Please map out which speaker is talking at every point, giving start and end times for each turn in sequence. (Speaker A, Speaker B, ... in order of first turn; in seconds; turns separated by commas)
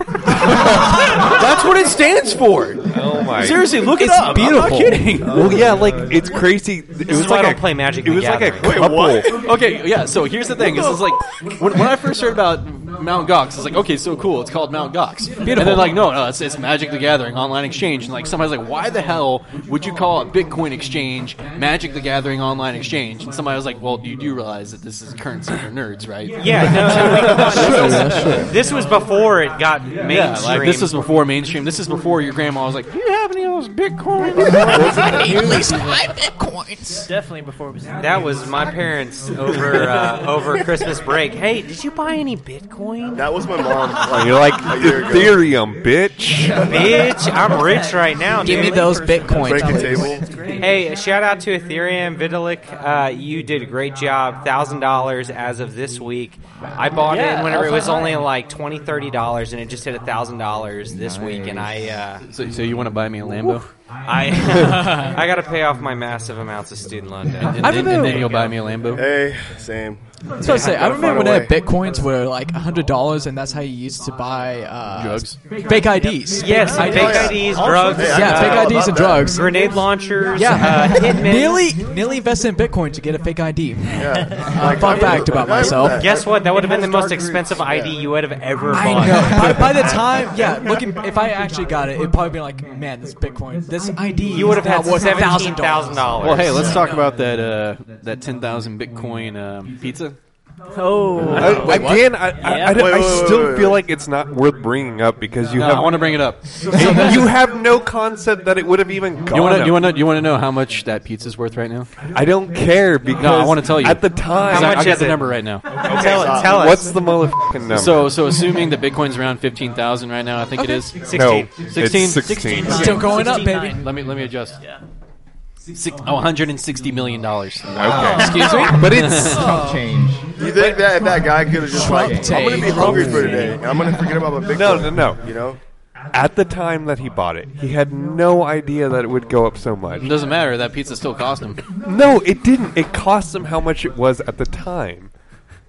Speaker A: 0.3-6.1, Speaker B: 2.9-3.7, Speaker C: 3.8-5.2, Speaker B: 5.2-9.4, Speaker D: 5.5-5.9, Speaker E: 7.0-8.8, Speaker F: 8.5-9.4, Speaker A: 8.8-28.4, Speaker C: 15.4-16.0, Speaker E: 26.3-30.9, Speaker C: 26.9-28.5, Speaker F: 27.2-27.5, Speaker D: 27.6-28.5, Speaker A: 30.0-35.6, Speaker C: 34.4-37.1, Speaker F: 34.4-35.4, Speaker G: 34.7-36.0, Speaker B: 34.7-35.5, Speaker G: 37.0-38.8, Speaker E: 38.0-43.4, Speaker F: 43.1-45.5, Speaker B: 44.0-46.7, Speaker G: 46.5-50.9, Speaker E: 46.6-48.9, Speaker C: 48.4-50.2, Speaker F: 49.4-50.3, Speaker E: 50.5-62.2, Speaker G: 56.9-58.3, Speaker D: 60.9-62.0, Speaker A: 62.2-63.7, Speaker E: 64.0-67.6, Speaker A: 67.4-69.1, Speaker C: 67.6-68.4, Speaker G: 68.1-68.5, Speaker F: 68.9-71.6, Speaker C: 70.4-86.0, Speaker E: 70.4-70.9, Speaker A: 74.9-75.4, Speaker G: 75.6-78.4, Speaker E: 76.4-81.7, Speaker F: 76.9-79.7, Speaker F: 84.0-86.5, Speaker G: 84.4-84.9, Speaker E: 86.0-90.0, Speaker A: 86.4-87.5, Speaker G: 86.5-87.5, Speaker F: 87.5-88.0, Speaker C: 88.7-97.0, Speaker F: 89.3-90.3, Speaker E: 94.3-96.8, Speaker A: 96.2-100.2, Speaker F: 96.4-96.8, Speaker G: 100.7-103.2, Speaker B: 101.3-109.9, Speaker C: 101.4-102.3, Speaker F: 102.5-103.8, Speaker A: 105.5-107.3, Speaker C: 106.7-107.2, Speaker A: 109.3-111.9, Speaker B: 112.1-115.0, Speaker A: 113.1-115.7, Speaker E: 114.5-117.1, Speaker F: 115.8-116.8, Speaker B: 115.8-118.2, Speaker A: 117.7-124.6, Speaker C: 120.6-120.9, Speaker E: 121.0-121.7, Speaker B: 121.1-123.1, Speaker G: 121.8-124.8, Speaker C: 122.7-123.9, Speaker A: 125.7-127.8, Speaker D: 127.7-128.3, Speaker B: 127.7-129.4, Speaker G: 127.8-129.8, Speaker C: 128.2-128.9, Speaker A: 128.4-129.5, Speaker D: 129.4-130.3, Speaker F: 130.3-135.6, Speaker C: 130.6-133.6, Speaker D: 131.8-133.5, Speaker B: 134.5-135.4, Speaker B: 136.1-140.2, Speaker A: 140.0-141.6, Speaker B: 141.8-145.1